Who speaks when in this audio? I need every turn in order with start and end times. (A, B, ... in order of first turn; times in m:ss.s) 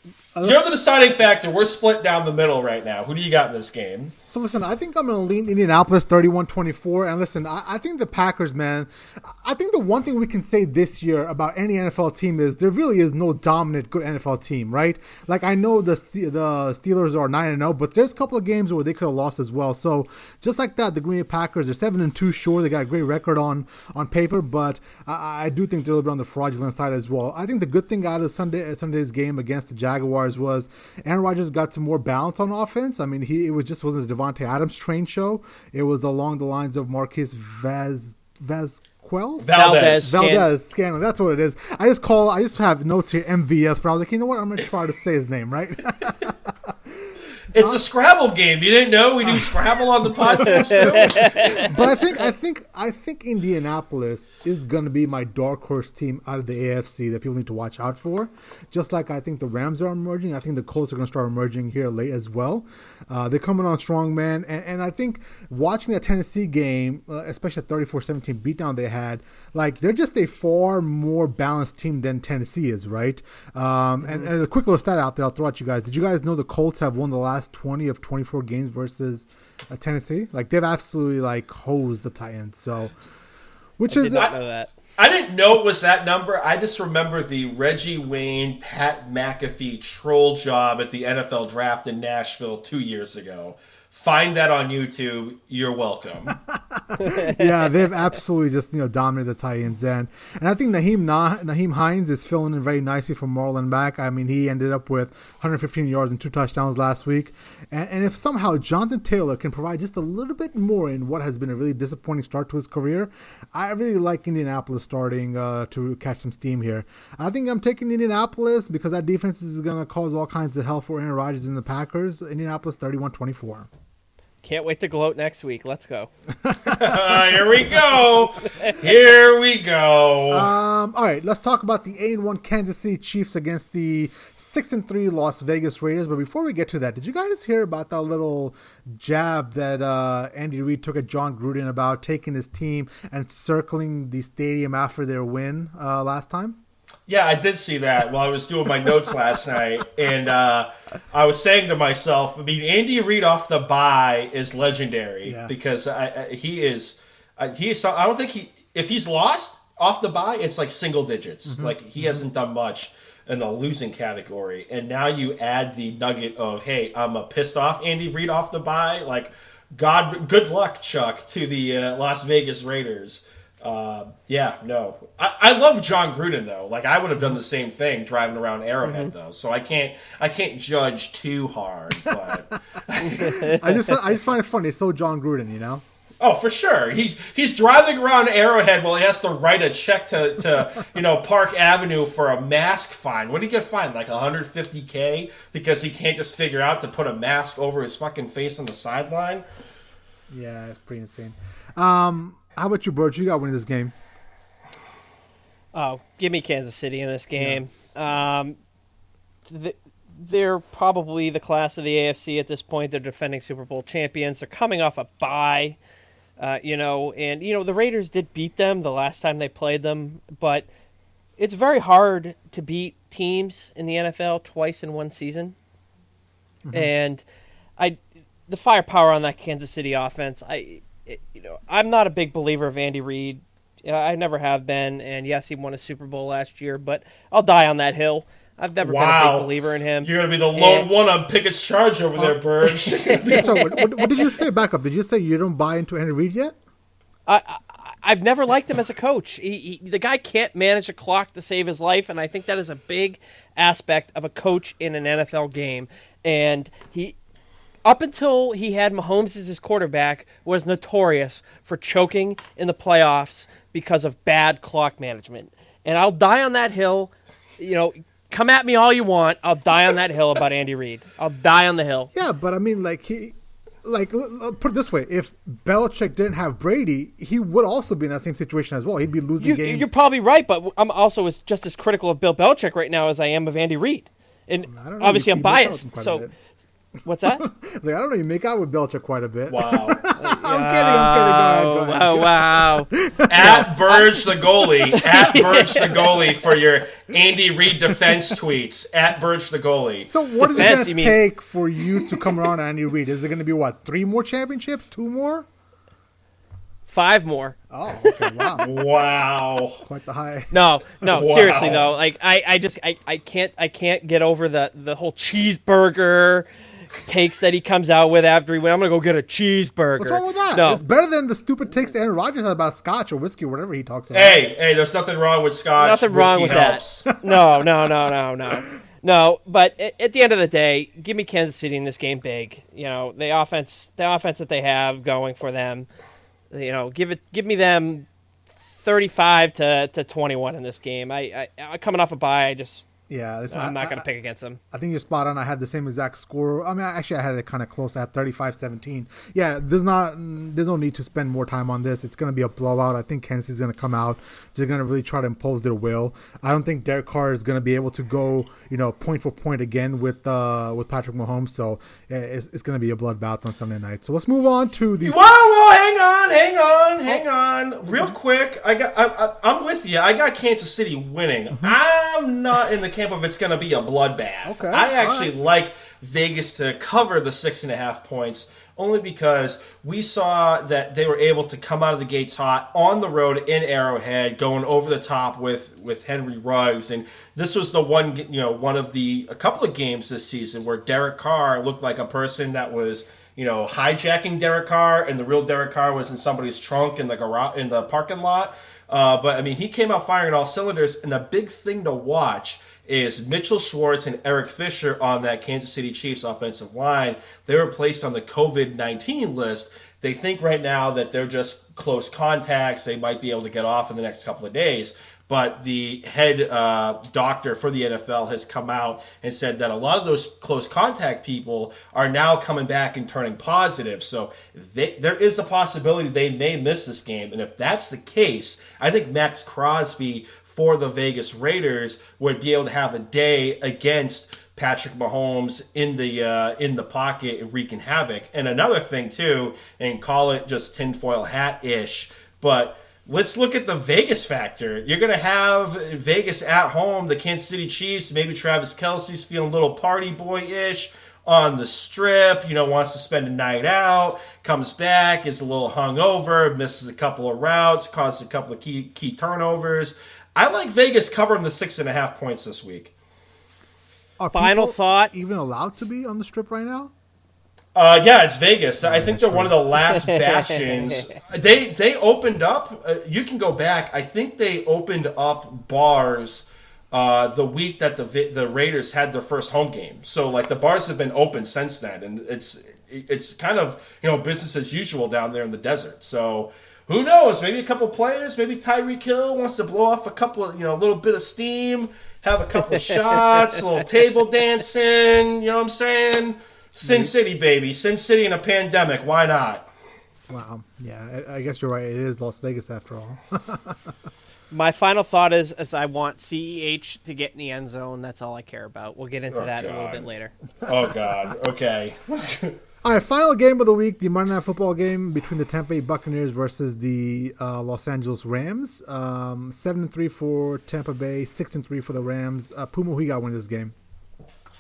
0:00.4-0:04.1 A
0:04.3-0:47.8 B
0:39.4-0:40.2 A
0:39.5-0:40.5 C
0:47.5-0:51.8 A
0:49.2-1:23.0 B
0:50.5-0:51.7 C
1:23.8-1:24.3 B
1:23.9-1:24.7 C
1:25.0-1:36.4 A
1:36.3-2:03.7 B
1:37.0-1:37.5 C
2:04.4-2:06.1 C
2:06.4-2:07.5 B
2:06.6-2:10.5 A
2:10.3-2:26.6 B
2:27.1-3:03.5 A
2:35.2-2:35.5 B
2:41.5-2:42.3 B
2:58.8-2:59.1 C
3:03.0-3:03.8 C
3:03.0-3:05.8 B
3:06.2-3:19.4 A
3:20.3-3:23.9 B
3:25.7-3:28.6 C
3:29.5-3:35.8 C
3:36.4-3:40.7 C
3:41.4-3:45.6 C
3:46.7-3:46.9 B
3:46.7-3:47.2 C
3:47.8-4:00.9 C
3:58.8-3:59.5 A
4:00.0-4:03.7 A
4:03.2-4:04.2 C
4:03.3-4:06.6 B
4:07.3-4:17.2 C
4:17.8-4:32.1 C
4:32.1-4:39.9 B
4:39.4-4:46.2 C
4:44.7-4:46.3 B
4:47.0-4:47.4 C
4:47.4-4:53.7 B
4:49.5-4:50.0 A
4:50.2-4:54.1 C
4:53.3-5:00.1 A
4:54.9-4:56.3 C
4:57.9-4:58.3 B
5:00.1-5:05.5 B
5:00.5-5:01.2 C
5:06.9-5:08.5 C
5:07.7-5:08.7 B
5:08.6-5:09.8 A
5:09.8-5:10.5 B
5:10.5-5:16.5 C
5:11.1-5:11.9 A
5:11.3-5:11.8 B
5:17.0-5:20.8 C
5:20.0-5:24.4 B
5:24.1-5:27.1 A
5:25.8-5:35.9 C
5:36.5-5:38.1 C
5:38.7-5:42.8 C
5:43.1-5:44.0 B
5:43.5-5:44.6 C
5:44.7-6:05.3 B
6:05.0-7:42.9 A
6:14.4-6:15.3 B
7:44.2-7:46.9 B
7:44.3-7:45.1 C
7:47.8-8:19.7 A
7:48.8-7:49.6 B
7:50.4-7:51.2 C
8:16.8-8:17.1 B
8:20.3-8:23.9 B
8:24.5-8:30.3 C
8:29.3-8:30.0 A
8:30.6-8:32.6 A
8:32.8-8:43.7 B